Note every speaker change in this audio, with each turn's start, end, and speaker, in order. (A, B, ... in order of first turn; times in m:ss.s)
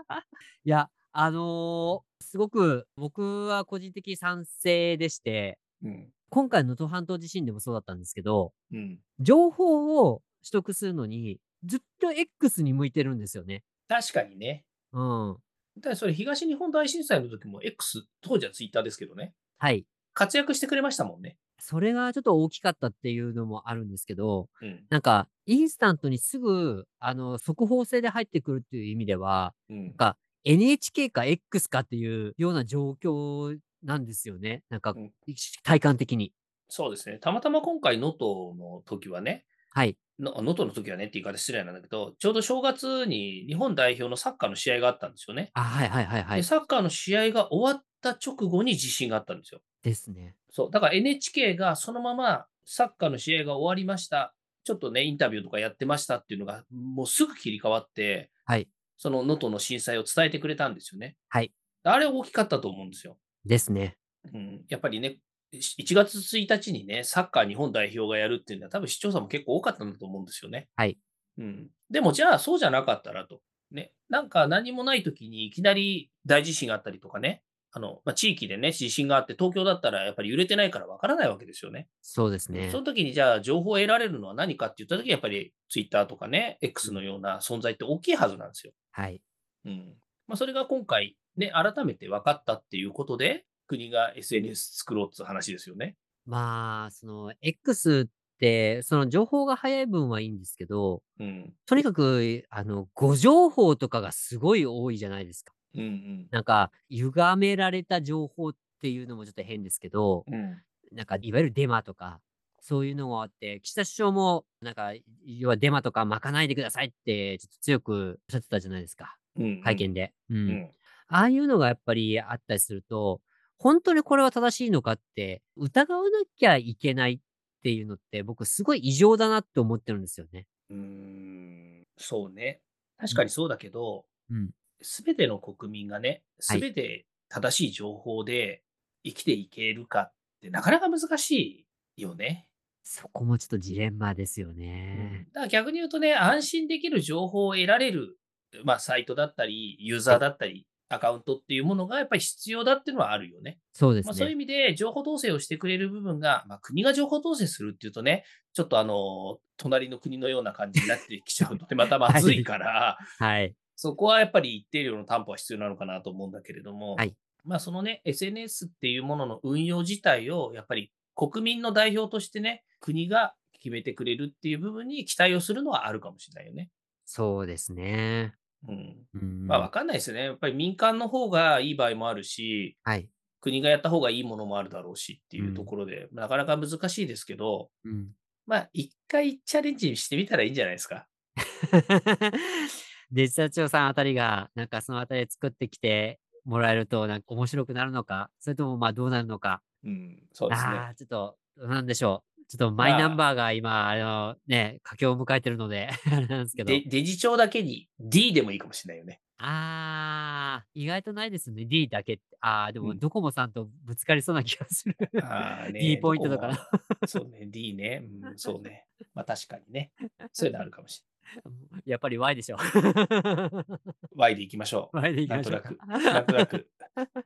0:00.6-0:05.6 A
0:05.8-0:06.1 B
0:06.3-0:08.5 A
0:08.7-0:09.0 B
0:09.2-0:13.6 A
0:13.9-0:14.7 B
0:14.9-0:15.4 A
0:15.8-0:19.4 B
0:19.6-0:19.9 A
0:20.2-0:21.4 B
0:21.6-0:36.3 A
0:24.6-0:24.9 B
0:29.7-0:30.0 B
0:36.7-0:39.5 B
0:40.2-0:45.5 B
0:45.5-0:46.5 A
0:46.3-0:49.6 B
0:49.8-0:50.3 A
0:50.5-0:58.3 B
0:59.0-1:01.2 B
1:01.8-1:03.2 B
1:03.4-1:04.0 A
1:04.3-1:10.7 B
1:11.4-1:21.9 B
1:22.0-1:22.8 A
1:22.5-1:28.7 B
1:28.9-1:29.2 A
1:29.6-1:36.0 B
1:36.3-1:41.0 A
1:41.2-1:41.7 B
1:41.7-1:45.5 A
1:45.8-1:46.3 B
1:46.3-1:50.3 A
1:50.3-1:50.6 B
1:50.9-2:10.4 A
1:59.4-1:59.9 B
2:00.5-2:00.7 B
2:10.7-2:14.1 B
2:14.3-2:14.5 A
2:14.8-2:22.5 B
2:22.9-2:25.2 A
2:24.9-2:43.0 B
2:33.8-2:34.3 A
2:42.1-2:42.5 A
2:43.2-2:43.6 A
2:43.8-2:56.7 B
2:57.1-2:58.4 A
2:58.6-3:02.8 B
2:59.1-2:59.7 A
3:03.4-3:07.7 B
3:05.4-3:05.7 A
3:07.8-3:08.2 A
3:08.5-3:11.1 B
3:11.4-3:19.6 A
3:19.8-3:20.9 B
3:20.5-3:26.8 A
3:22.8-3:23.2 B
3:26.6-3:29.2 B
3:29.4-3:35.2 A
3:35.2-3:41.0 B
3:35.8-3:37.2 A
3:41.4-3:43.8 A
3:44.1-3:46.8 B
3:44.9-3:46.5 A